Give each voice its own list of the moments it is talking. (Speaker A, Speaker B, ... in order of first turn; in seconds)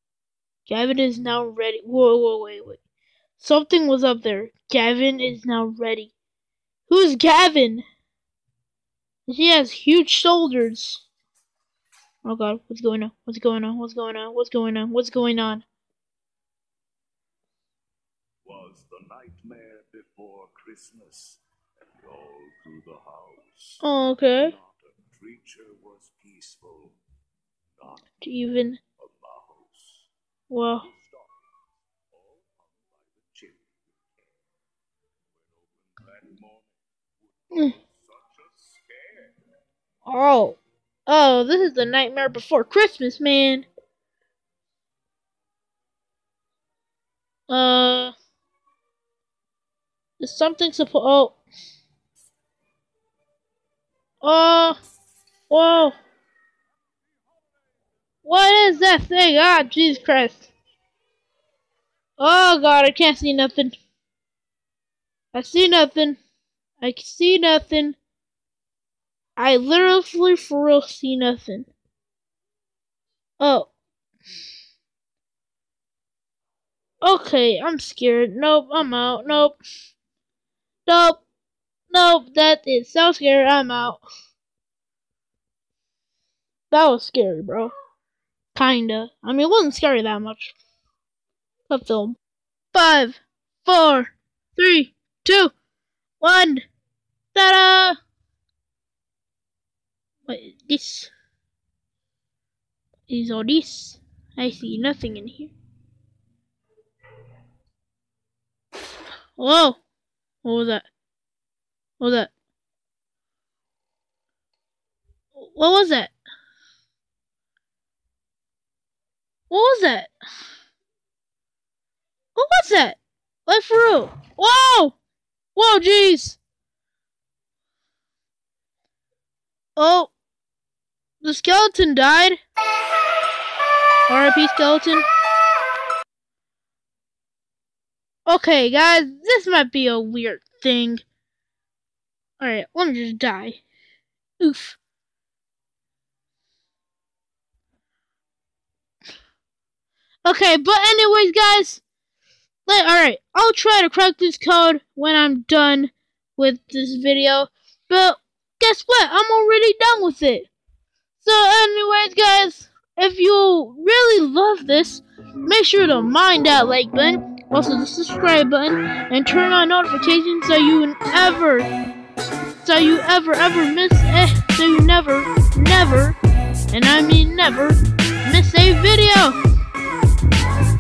Speaker A: 0.7-2.8, 3.4-6.1, 6.9-7.8, 9.3-11.1, 12.2-15.7, 23.8-24.6, 28.2-28.8, 30.5-30.9, 40.1-43.7, 47.5-48.1, 50.2-51.4, 54.2-54.8, 55.5-56.0, 58.2-60.5, 62.2-63.8, 65.3-66.2, 66.8-68.0, 69.4-71.7, 73.4-73.7, 77.0-79.6, 80.9-81.2, 81.9-84.0, 86.7-87.7, 88.5-90.5, 91.7-92.2, 92.7-95.5, 96.2-96.7, 97.3-98.0, 100.3-101.1, 103.1-105.5, 109.4-109.8, 110.4-110.9, 112.0-112.3, 115.4-116.1, 119.5-120.1, 122.4-125.0, 125.5-126.4, 129.8-130.1, 131.2-132.4, 134.1-135.1, 138.3-141.0, 142.4-143.6, 144.4-144.8, 150.2-151.8, 152.7-160.5, 161.2-171.7, 172.6-176.2, 176.7-179.4
Speaker B: 18.4-23.8, 24.4-27.0, 29.0-30.1, 30.8-31.5, 32.1-33.8, 35.4-39.4